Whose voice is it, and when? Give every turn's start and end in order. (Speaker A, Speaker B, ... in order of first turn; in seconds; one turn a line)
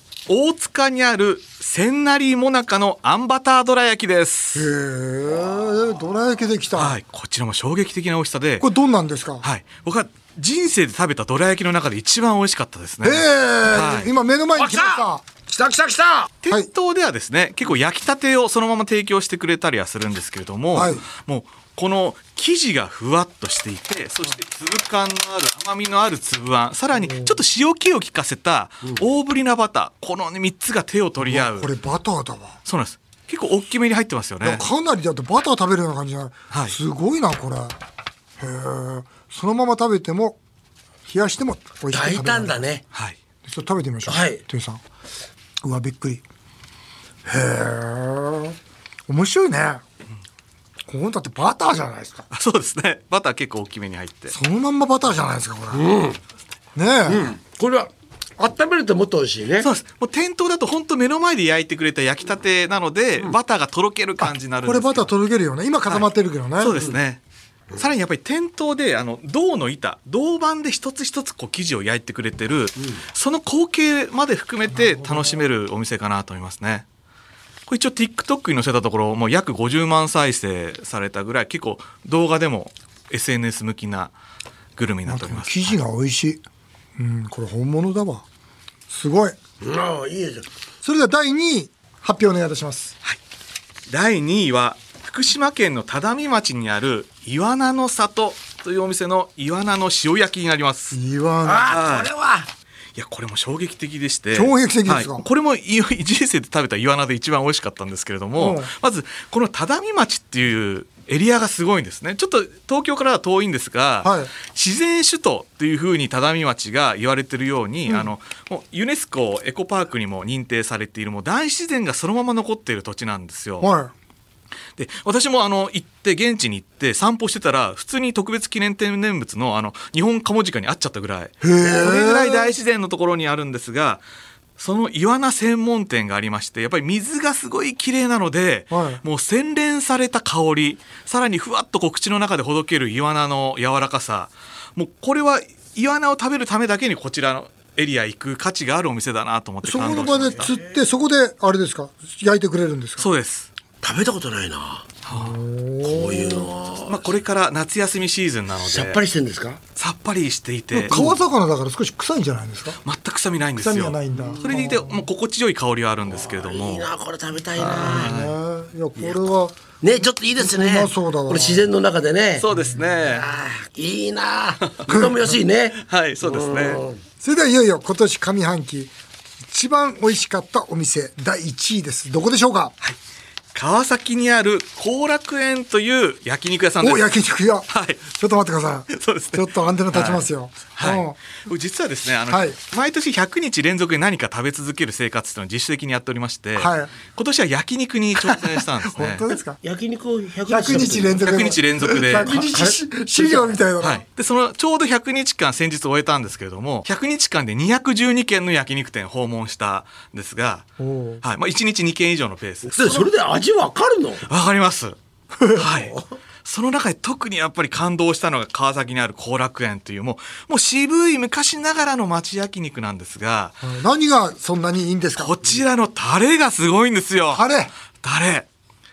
Speaker A: 0.3-4.7
Speaker B: 4.5-7.0
Speaker A: 6.7-8.7
Speaker B: 8.6-9.4
Speaker A: 9.4-14.1
Speaker B: 13.0-15.2
Speaker C: 14.6-16.3
Speaker A: 16.4-31.7
Speaker B: 20.7-21.0
Speaker B: 27.0-27.4
Speaker B: 31.2-32.6
Speaker A: 32.6-34.6
Speaker B: 34.4-37.8
Speaker A: 36.5-36.8
Speaker B: 38.4-40.4
Speaker B: 41.1-42.6
Speaker C: 41.9-42.8
Speaker B: 43.4-44.8
Speaker C: 44.0-44.4
Speaker B: 45.6-46.2
Speaker B: 47.2-48.6
Speaker B: 49.1-49.8
Speaker B: 50.9-52.3
Speaker A: 52.3-54.3
Speaker B: 54.3-55.9
Speaker C: 55.7-56.2
Speaker B: 56.7-57.3
Speaker C: 57.0-59.7
Speaker A: 59.6-65.1
Speaker B: 64.2-66.8
Speaker A: 66.6-67.2
Speaker A: 67.8-76.8
Speaker B: 74.8-75.4
Speaker A: 77.7-84.1
Speaker A: 84.8-85.8
Speaker B: 85.1-86.4
Speaker B: 87.0-88.2
Speaker B: 88.9-89.4
Speaker C: 89.6-90.5
Speaker B: 90.8-92.9
Speaker A: 93.9-101.0
Speaker B: 100.9-101.8
Speaker C: 101.4-102.5
Speaker A: 101.7-102.1
Speaker A: 102.9-123.7
Speaker B: 104.3-105.2
Speaker B: 108.4-108.7
Speaker B: 114.0-114.3
Speaker B: 123.6-123.9
Speaker A: 124.8-134.0
Speaker B: 131.4-132.5
Speaker A: 134.6-150.5
Speaker B: 138.7-139.0
Speaker B: 149.6-153.1
Speaker C: 150.1-150.7
Speaker A: 153.0-153.5
Speaker C: 153.8-155.0
Speaker A: 155.0-155.4
Speaker B: 155.1-156.5
Speaker C: 155.8-157.1
Speaker A: 156.8-159.0
Speaker C: 158.6-159.6
Speaker A: 159.8-161.1
Speaker B: 160.7-162.8
Speaker A: 162.8-166.9
Speaker B: 163.6-165.0
Speaker C: 164.1-164.6
Speaker C: 166.1-168.2
Speaker A: 167.6-168.3
Speaker B: 167.7-169.6
Speaker C: 169.0-169.2
Speaker C: 169.8-172.5
Speaker B: 170.4-171.7
Speaker A: 172.4-173.3
Speaker C: 173.0-177.0
Speaker A: 175.8-176.8
Speaker B: 177.2-178.9
Speaker B: 179.5-182.7
Speaker A: 183.5-187.1
Speaker B: 186.8-191.2
Speaker A: 187.7-188.0
Speaker A: 188.9-199.2
Speaker B: 192.3-192.5
Speaker B: 196.6-196.9
Speaker B: 198.2-199.6
Speaker C: 199.6-203.6
Speaker B: 200.5-204.0
Speaker A: 201.2-202.4
Speaker A: 203.8-210.7
Speaker B: 210.8-211.2
Speaker A: 211.2-213.1
Speaker C: 212.7-214.2
Speaker A: 214.2-215.0
Speaker B: 215.4-215.7
Speaker A: 215.5-223.6
Speaker C: 215.7-216.1
Speaker B: 223.6-225.3
Speaker A: 225.2-227.4
Speaker B: 227.3-227.7
Speaker A: 228.0-228.5